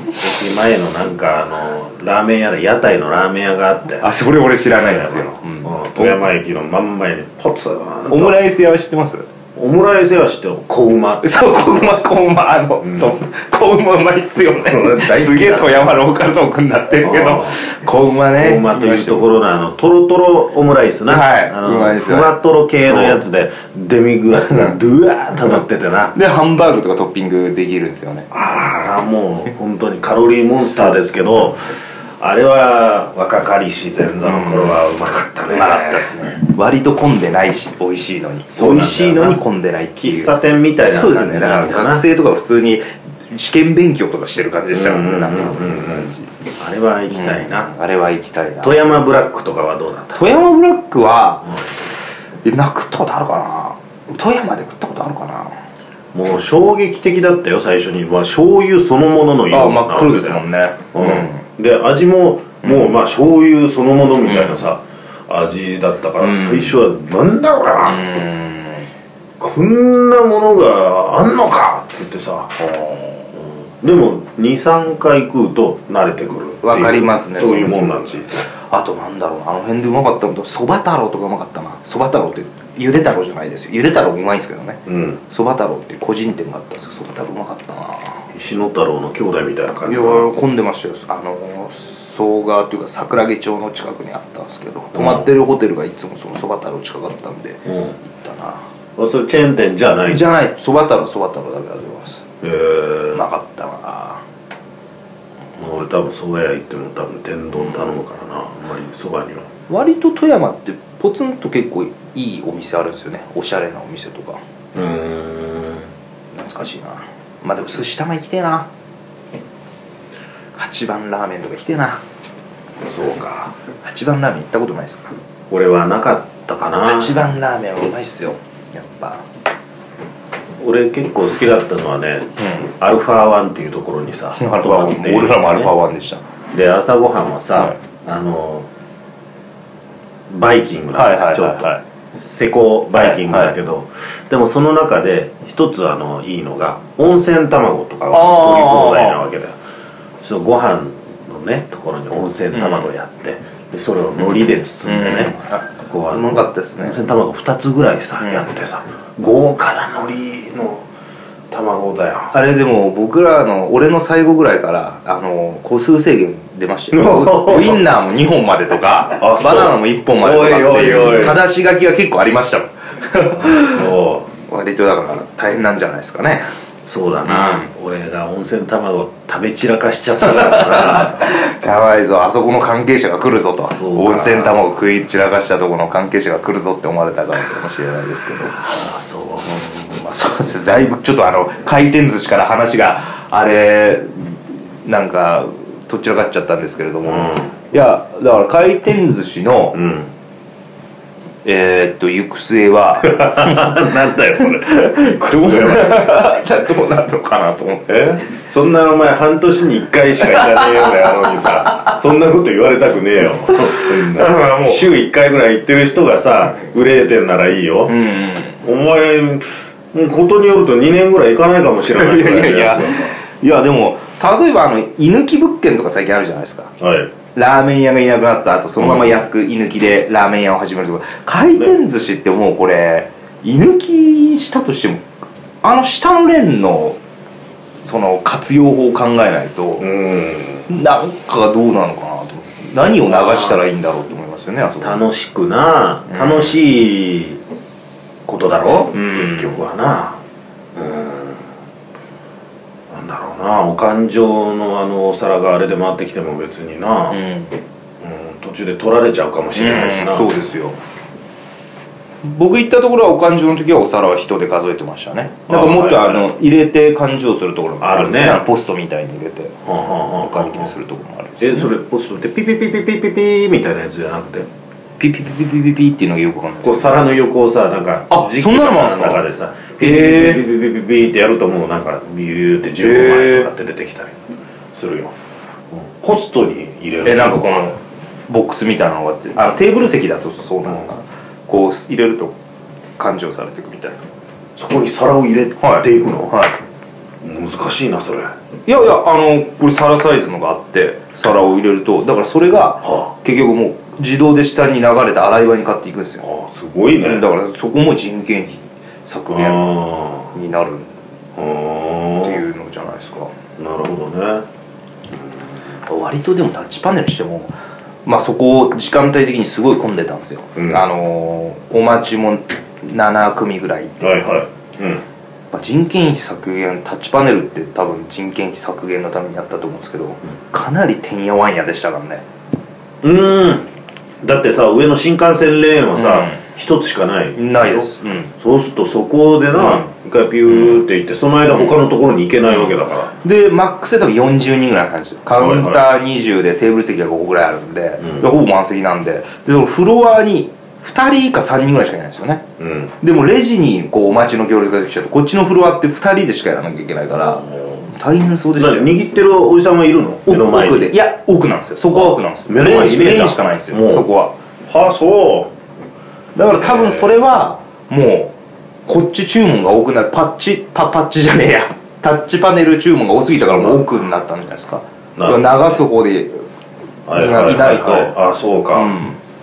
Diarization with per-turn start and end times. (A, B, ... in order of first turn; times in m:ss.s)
0:00.2-0:04.1 A
0:04.0-0:06.2 B
0:04.7-0:08.4 A
0:08.1-0:09.3 B
0:09.6-0:11.3 A
0:11.2-0:19.2 B
0:12.8-0:13.1 A
0:14.5-0:16.0 A
0:17.0-0:17.6 A
0:18.4-0:26.2 A
0:21.1-0:23.2 B
0:24.5-0:24.7 B
0:26.1-0:28.3 B
0:28.3-0:36.3 A
0:30.6-0:31.2 B
0:34.2-0:34.8 B
0:35.5-0:46.3 B
0:38.5-0:39.4 A
0:40.0-0:42.0 A
0:44.7-0:47.7 A
0:47.1-0:48.8 B
0:48.6-0:50.4 A
0:50.1-0:55.5 B
0:56.1-1:08.1 A
0:59.5-1:01.4 B
1:02.6-1:03.0 B
1:04.3-1:04.6 B
1:06.2-1:06.8 B
1:07.8-1:08.9 B
1:09.4-1:12.6 A
1:12.6-1:13.3 B
1:13.8-1:18.4 A
1:16.6-1:28.3 B
1:24.9-1:25.2 A
1:28.3-1:30.3 A
1:29.8-1:38.6 B
1:35.0-1:35.3 A
1:37.7-1:38.0 A
1:39.0-1:40.2 A
1:40.1-1:42.2 B
1:42.4-1:43.2 A
1:43.1-1:44.2 B
1:45.6-1:49.5 A
1:49.7-1:54.4 B
1:54.8-1:55.9 A
1:56.3-1:58.7 B
2:00.6-2:02.0 B
2:02.8-2:03.6 A
2:03.8-2:05.1 B
2:05.5-2:07.2 A
2:06.8-2:09.2 B
2:10.6-2:15.7 A
2:12.4-2:12.7 B
2:14.4-2:16.2 B
2:16.5-2:18.7 A
2:20.3-2:29.6 A
2:21.0-2:21.8 B
2:23.0-2:23.5 B
2:28.1-2:29.2 B
2:30.2-2:40.8 A
2:32.5-2:32.9 B
2:34.2-2:37.0 B
2:38.2-2:38.5 B
2:41.5-2:42.3 A
2:42.3-2:53.9 B
2:46.9-2:47.8 A
2:49.1-2:51.4 A
2:53.3-2:54.3 A
2:54.5-2:56.5 B
2:56.8-3:01.3 A
2:57.3-2:57.7 B
3:00.2-3:08.7 B
3:03.7-3:04.6 A
3:08.6-3:09.6 A
3:09.4-3:19.8 B
3:17.0-3:17.5 A
3:19.7-3:20.1 A
3:21.4-3:23.9 B
3:23.0-3:26.3 A
3:24.7-3:28.0 B
3:27.9-3:37.9 A
3:30.2-3:32.0 B
3:33.5-3:34.8 B
3:37.9-3:38.6 B
3:38.6-3:43.2 A
3:41.9-3:46.7 B
3:46.8-3:47.1 A
3:47.3-3:55.1 B
3:48.8-3:49.2 A
3:55.6-3:57.0 B
3:57.8-3:59.9 B
3:59.8-4:00.7 A
4:00.7-4:05.0 B
4:03.0-4:03.6 A
4:04.8-4:07.4 A
4:06.1-4:06.6 B
4:08.3-4:10.2 A
4:08.9-4:09.6 B
4:10.8-4:11.5 A
4:12.9-4:17.2 A
4:17.1-4:17.6 B
4:18.0-4:20.3 A
4:19.6-4:20.8 B
4:22.2-4:29.6 B
4:25.5-4:26.3 A
4:27.8-4:28.4 A
4:29.6-4:30.7 A
4:30.2-4:31.7 B
4:31.4-4:34.5 A
4:35.0-4:37.1 B
4:36.6-4:44.2 A
4:38.1-4:39.2 B
4:39.8-4:40.4 B
4:42.8-4:43.5 B
4:44.7-4:45.2 A
4:45.7-4:47.7 A
4:47.0-4:52.4 B
4:53.0-4:54.0 B
4:54.6-4:56.4 A
4:55.6-4:56.6 B
4:57.2-4:58.3 A
4:58.7-5:06.3 B
5:06.2-5:07.2 A
5:07.0-5:09.8 B
5:09.3-5:10.3 A
5:10.3-5:10.9 B
5:11.4-5:12.4 A
5:12.2-5:13.3 B
5:13.6-5:14.5 A
5:15.9-5:17.5 B
5:18.0-5:24.0 B
5:20.6-5:20.8 A
5:24.0-5:25.0 A
5:25.5-5:32.2 B
5:33.0-5:33.7 A
5:34.2-5:43.1 A
5:36.0-5:36.4 B
5:37.4-5:38.3 B
5:39.6-5:39.9 B
5:40.5-5:40.8 B
5:43.2-5:52.4 B
5:45.4-5:45.8 A
5:48.0-5:48.3 A
5:52.6-5:52.9 A
5:53.0-5:58.9 B
5:57.2-5:57.6 A
5:58.6-6:00.9 A
6:00.3-6:04.4 B
6:01.9-6:04.1 A
6:04.7-6:05.5 A
6:06.4-6:08.3 B
6:06.5-6:07.1 A
6:08.9-6:16.4 B
6:13.3-6:13.9 A
6:15.2-6:15.8 A
6:17.1-6:19.0 A
6:17.2-6:18.2 B
6:18.7-6:19.2 B